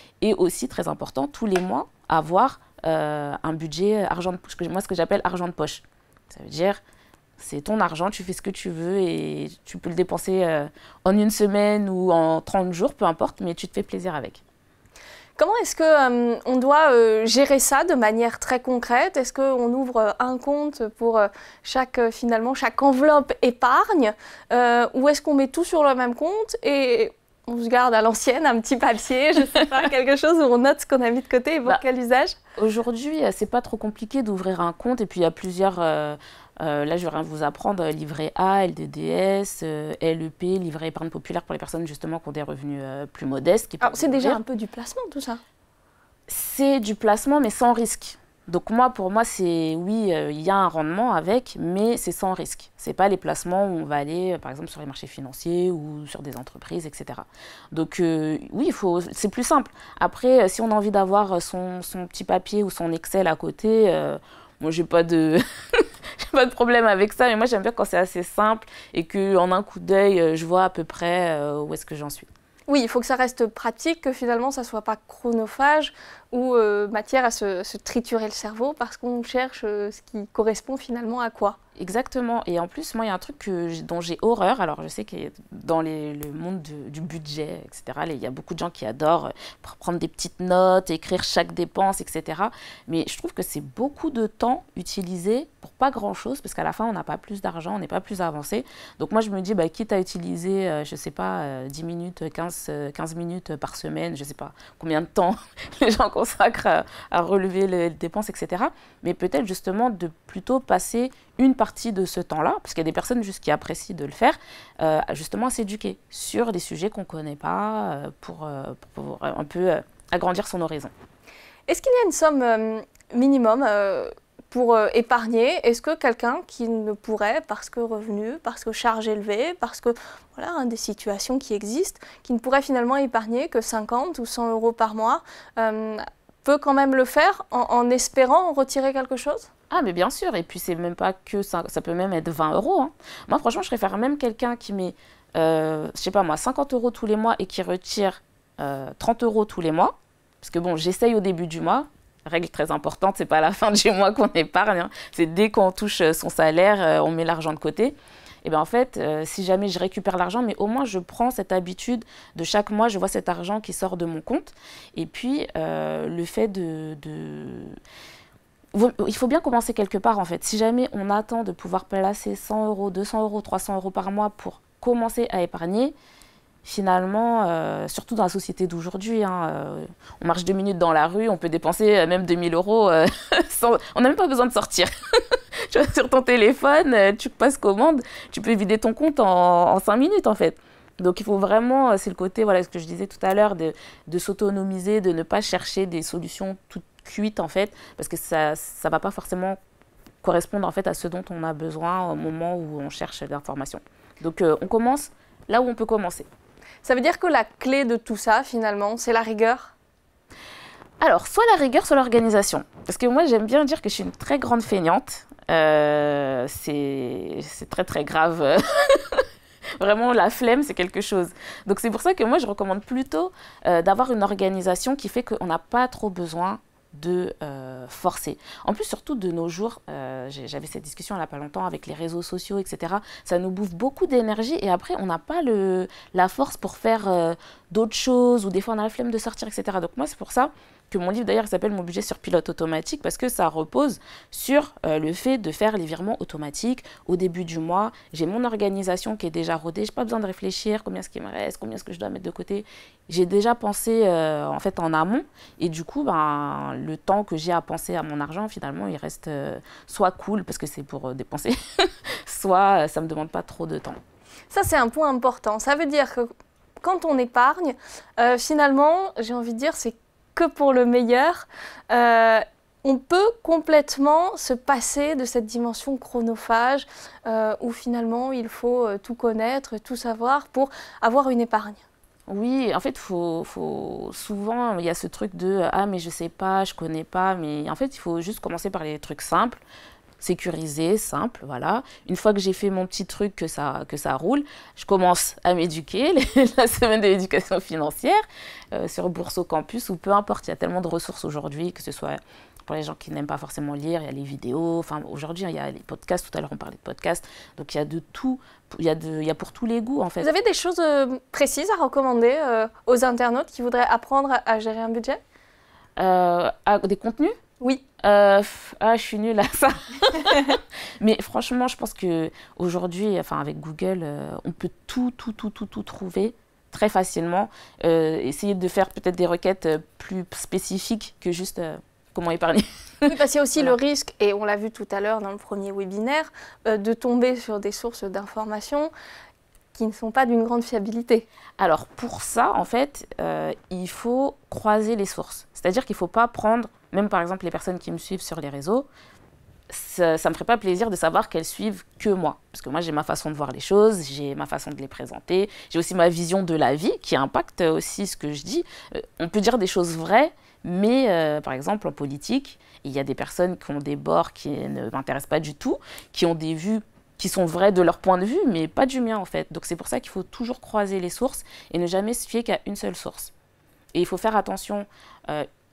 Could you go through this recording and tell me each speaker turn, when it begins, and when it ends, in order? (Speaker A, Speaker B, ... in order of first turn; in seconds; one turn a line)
Speaker A: 0.2-6.8
Speaker A: 7.4-14.4
Speaker B: 15.4-32.4
Speaker A: 32.6-44.4
Speaker B: 43.8-45.4
Speaker A: 46.3-72.3
Speaker B: 72.7-81.6
Speaker A: 81.8-120.9
Speaker B: 121.7-139.5
Speaker A: 139.7-167.8
Speaker A: 168.7-175.9
Speaker A: 176.6-199.6
Speaker A: 200.2-206.3
Speaker B: 206.8-209.7
Speaker A: 211.0-219.2
Speaker A: 219.8-264.0
Speaker B: 264.5-266.3
Speaker B: 266.8-281.8
Speaker A: 282.3-289.6
Speaker A: 290.2-310.3
Speaker B: 310.2-315.2
Speaker A: 316.0-317.4
Speaker A: 318.0-333.8
Speaker B: 333.1-338.9
Speaker B: 339.7-341.3
Speaker A: 341.6-348.9
Speaker A: 349.7-373.3
Speaker A: 373.9-375.5